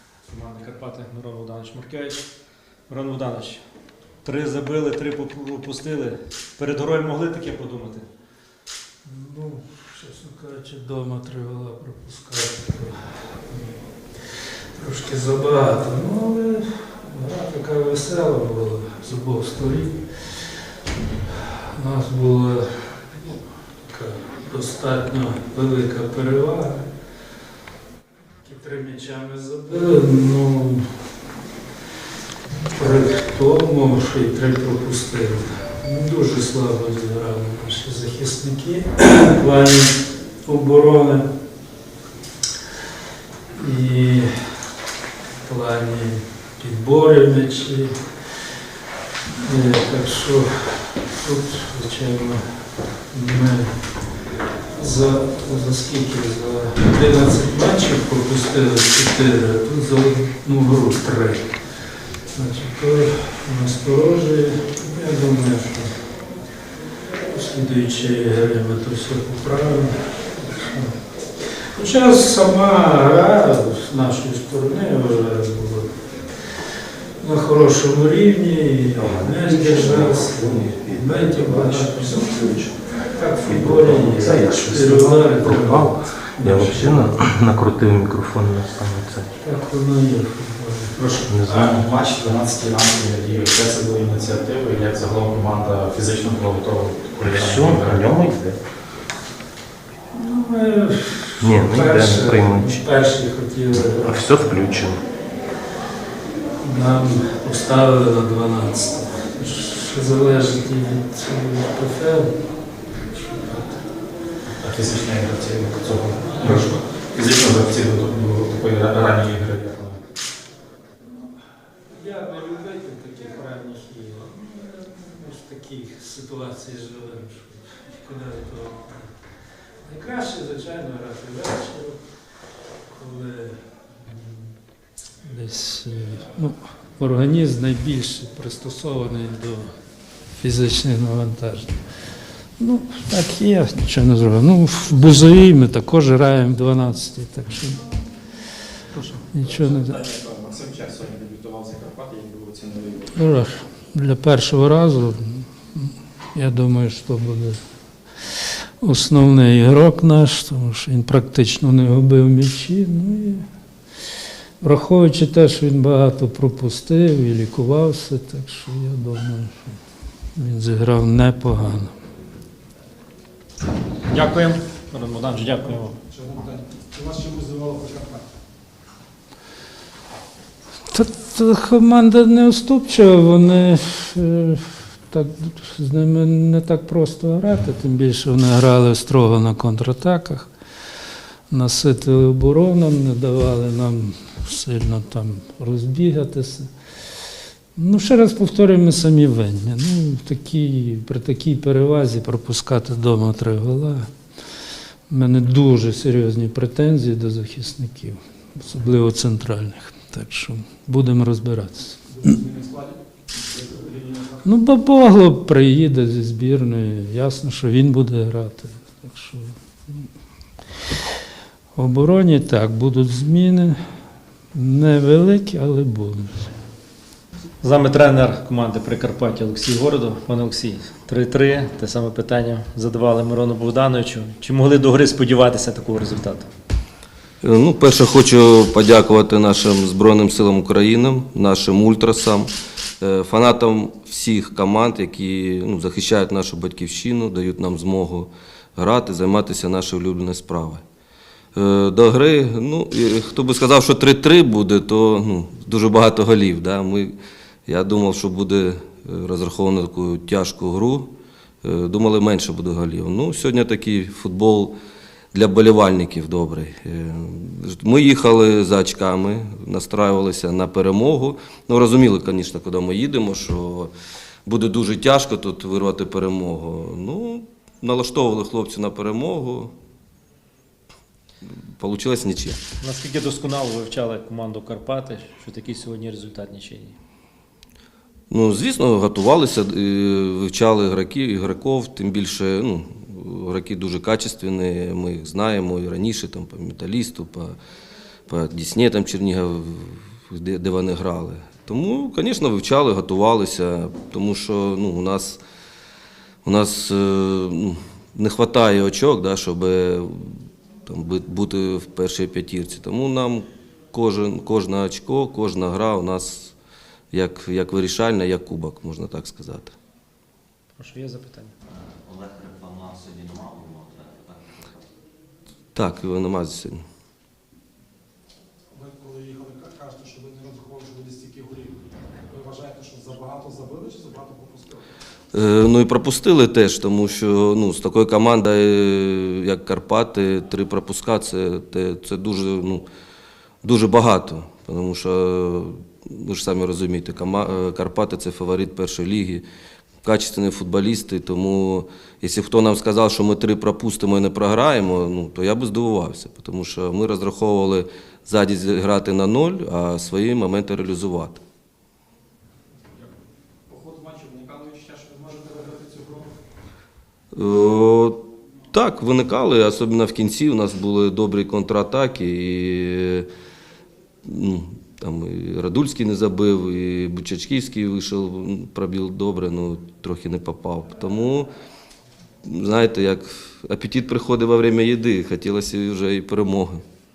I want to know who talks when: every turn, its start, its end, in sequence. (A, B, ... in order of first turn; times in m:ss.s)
0:00.2-0:02.3 A
0:02.9-0:03.6 A
0:04.2-0:08.1 A
0:09.0-0:20.4 B
0:21.4-0:26.9 B
0:28.4-0:30.9 B
0:32.7-0:41.3 B
0:43.5-0:44.7 B
0:45.4-0:48.0 B
0:49.4-0:53.7 B
0:54.7-1:01.5 B
1:02.3-1:06.0 B
1:07.3-1:11.0 B
1:11.6-1:16.0 B
1:17.2-1:27.3 B
1:18.9-1:22.7 C
1:23.4-1:29.3 C
1:29.4-1:31.0 B
1:31.0-1:38.2 D
1:31.3-1:31.8 C
1:37.2-1:38.6 C
1:40.1-1:44.8 B
1:41.4-1:42.8 C
1:43.7-1:45.0 C
1:46.6-1:53.8 B
1:54.6-2:00.0 D
2:01.9-2:09.2 B
2:09.8-2:12.0 B
2:12.9-2:14.5 B
2:15.2-2:19.7 B
2:20.3-2:22.0 B
2:22.6-2:27.8 B
2:28.9-2:29.9 B
2:29.4-2:33.2 D
2:33.2-2:37.6 B
2:38.3-2:43.4 B
2:44.6-2:49.8 B
2:50.3-2:51.9 B
2:54.1-2:56.0 A
2:55.6-2:58.3 E
3:00.9-3:10.5 B
3:11.5-3:16.7 B
3:17.7-3:24.1 B
3:25.1-3:32.0 B
3:32.1-3:33.0 E
3:33.5-3:34.4 E
3:34.4-3:40.0 B
3:41.7-3:43.8 B
3:44.5-3:46.5 B
3:47.6-3:56.5 A
3:57.4-4:10.8 F
4:11.5-4:17.2 F
4:17.7-4:24.7 F
4:25.3-4:33.9 F
4:34.4-4:39.7 F
4:41.8-4:42.6 F
4:42.8-4:46.9 A
4:48.3-4:57.6 F
4:58.3-5:05.4 F
5:06.4-5:16.5 F
5:17.1-5:19.8 F
5:20.8-5:21.5 A
5:21.9-5:24.4 G
5:25.7-5:26.8 F
5:28.7-5:34.8 E
5:35.3-5:42.8 F
5:43.6-5:49.4 F
5:50.0-6:01.4 F
6:03.7-6:06.3 E
6:07.3-6:08.2 F
6:08.7-6:13.3 F
6:14.2-6:21.5 F
6:22.4-6:26.8 F